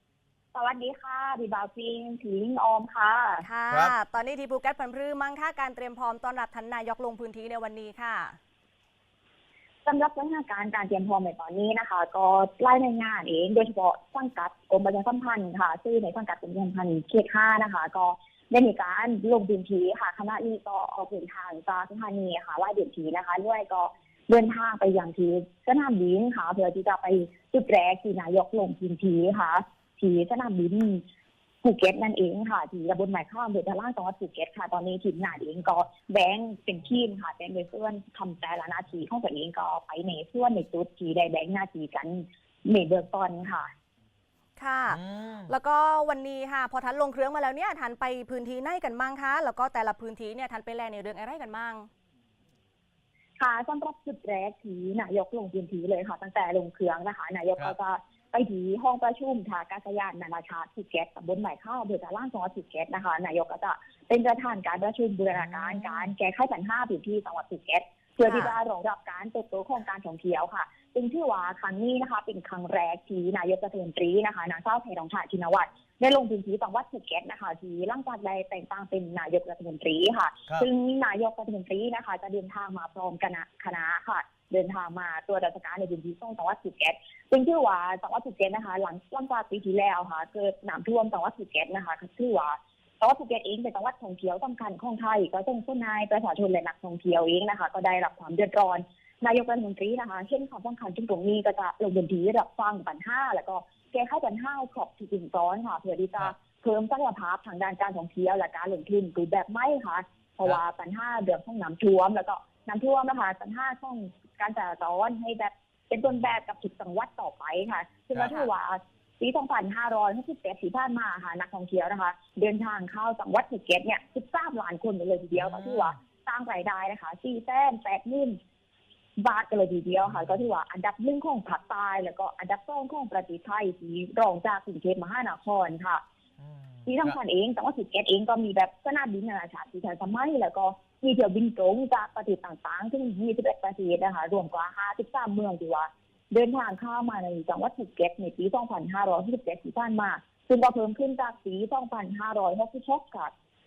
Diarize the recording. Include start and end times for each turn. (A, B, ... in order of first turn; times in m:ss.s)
0:00.5-0:03.5 A
0:03.4-0:08.4 B
0:09.8-0:31.0 A
0:31.6-0:43.7 A
0:44.6-0:51.9 B
0:44.9-0:45.5 C
0:53.4-2:08.4 A
1:08.2-1:08.5 B
1:58.2-1:58.5 B
2:05.4-2:06.0 C
2:09.2-2:16.0 A
2:10.0-2:10.4 C
2:16.4-2:17.2 C
2:16.9-2:33.3 A